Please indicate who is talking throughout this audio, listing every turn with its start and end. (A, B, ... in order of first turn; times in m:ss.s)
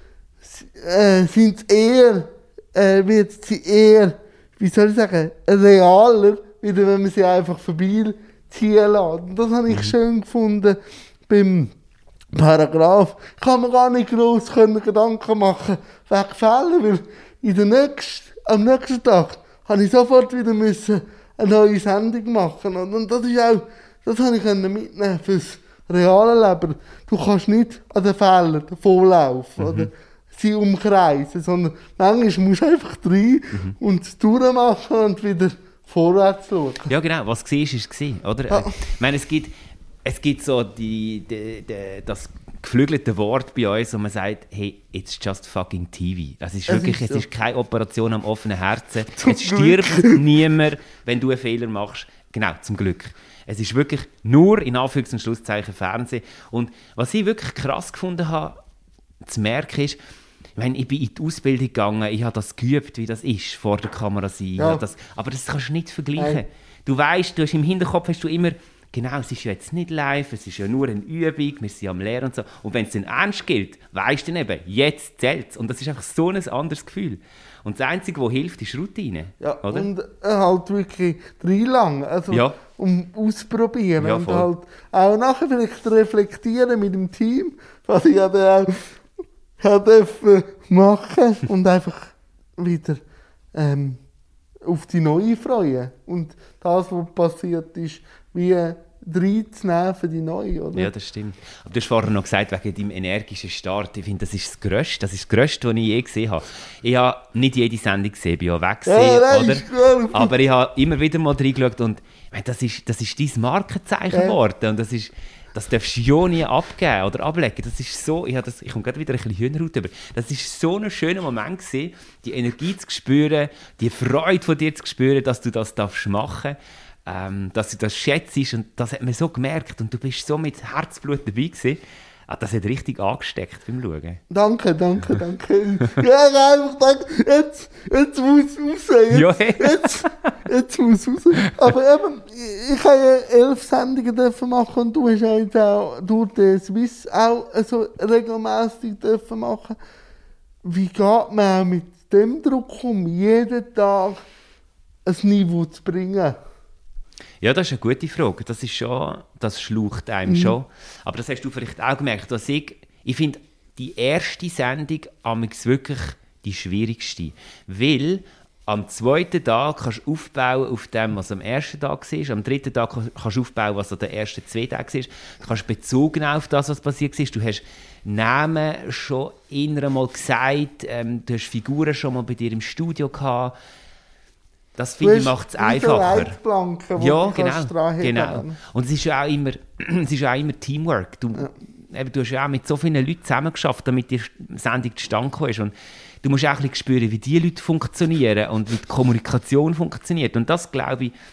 0:00.4-0:10.8 A
0:11.3-0:11.7 A
0:12.3-0:36.9 A
0:29.6-0:29.9 B
0:36.9-0:39.5 B
0:38.5-0:38.8 A
0:40.0-0:58.6 B
0:46.7-0:47.2 A
0:49.2-0:50.2 A
0:59.2-1:00.0 B
1:00.6-1:19.9 B
1:04.6-1:04.8 A
1:19.4-1:28.9 A
1:22.3-1:22.6 B
1:24.0-1:24.5 B
1:29.6-1:33.0 A
1:33.5-1:34.0 A
1:34.6-1:40.9 A
1:40.7-2:14.2 B
1:48.8-1:50.3 A
1:54.1-1:54.4 A
2:14.3-2:29.8 A
2:19.1-2:20.1 B
2:30.6-2:34.2 A
2:35.0-2:36.4 A
2:37.4-3:03.5 B
2:40.3-2:40.5 A
3:04.8-3:06.3 B
3:05.0-3:08.6 A
3:07.0-3:21.1 B